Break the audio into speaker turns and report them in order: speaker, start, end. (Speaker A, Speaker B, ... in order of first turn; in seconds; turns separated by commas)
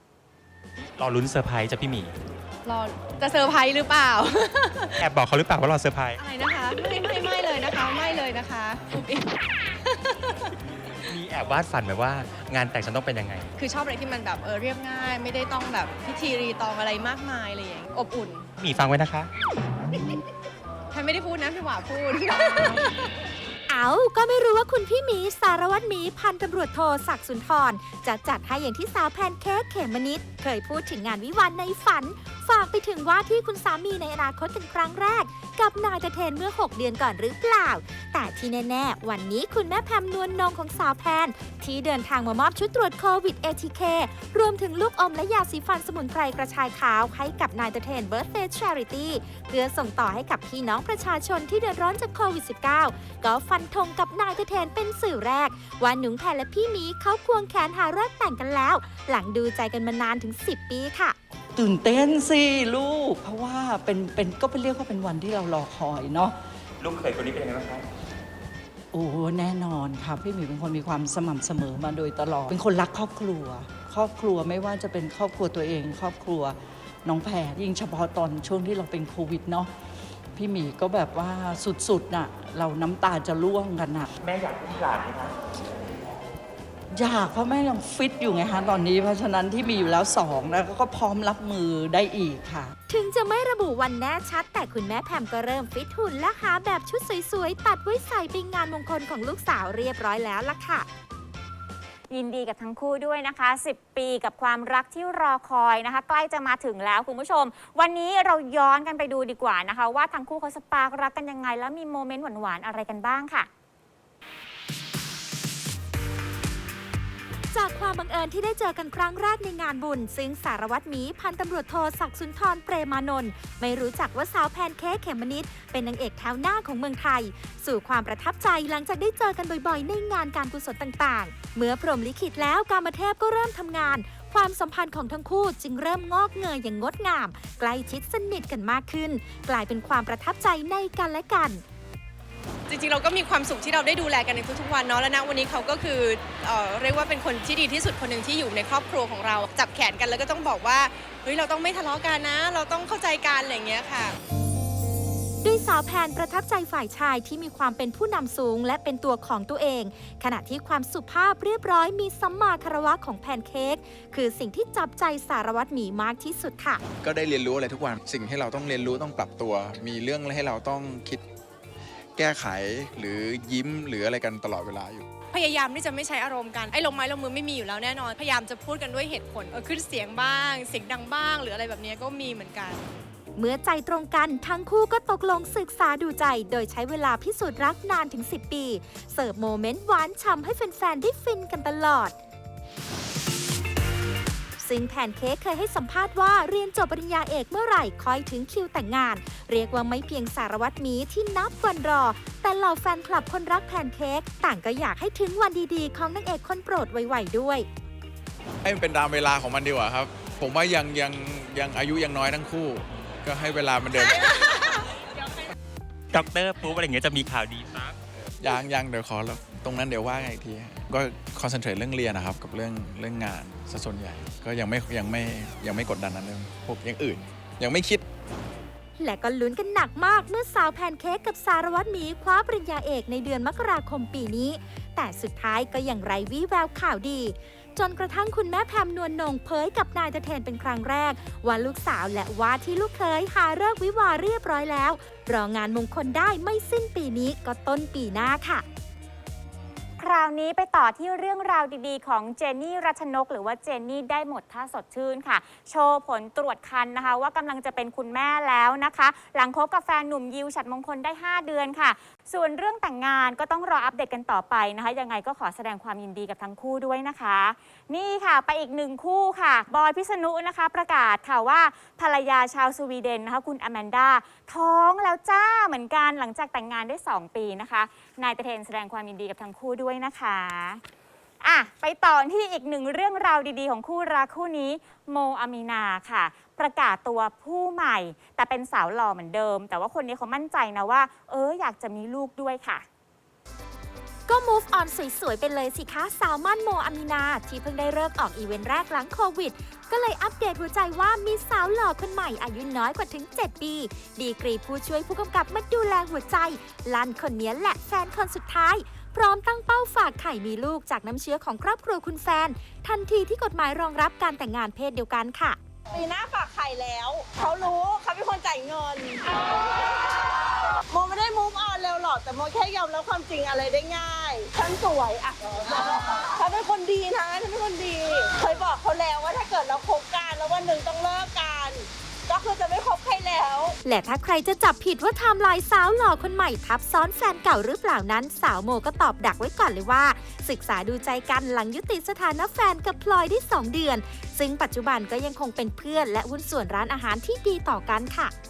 Speaker A: 1.0-2.1, Speaker B: 2.6-4.9, Speaker A: 5.0-6.2, Speaker B: 6.2-9.3, Speaker B: 9.8-10.4, Speaker A: 11.1-13.5, Speaker B: 13.6-18.5, Speaker A: 18.6-19.3, Speaker B: 20.9-23.1, Speaker C: 23.7-61.1, Speaker D: 61.5-66.3, Speaker A: 66.8-67.8, Speaker D: 68.9-79.7, Speaker D: 80.3-84.1, Speaker A: 84.2-85.3, Speaker D: 86.9-92.7, Speaker C: 92.9-100.9, Speaker E: 102.1-113.5, Speaker C: 117.5-141.6, Speaker B: 142.7-154.1, Speaker C: 155.4-166.8, Speaker F: 167.0-171.2, Speaker F: 172.2-175.1, Speaker B: 175.3-182.8, Speaker C: 183.3-192.1, Speaker C: 194.6-207.7, Speaker F: 208.6-214.6, Speaker A: 216.1-218.0, Speaker F: 218.4-228.0, Speaker C: 229.0-248.6, Speaker E: 250.0-280.8, Speaker E: 281.4-292.9, Speaker C: 294.3-315.6, Speaker G: 315.9-320.3, Speaker G: 320.9-333.8, Speaker C: 333.8-348.3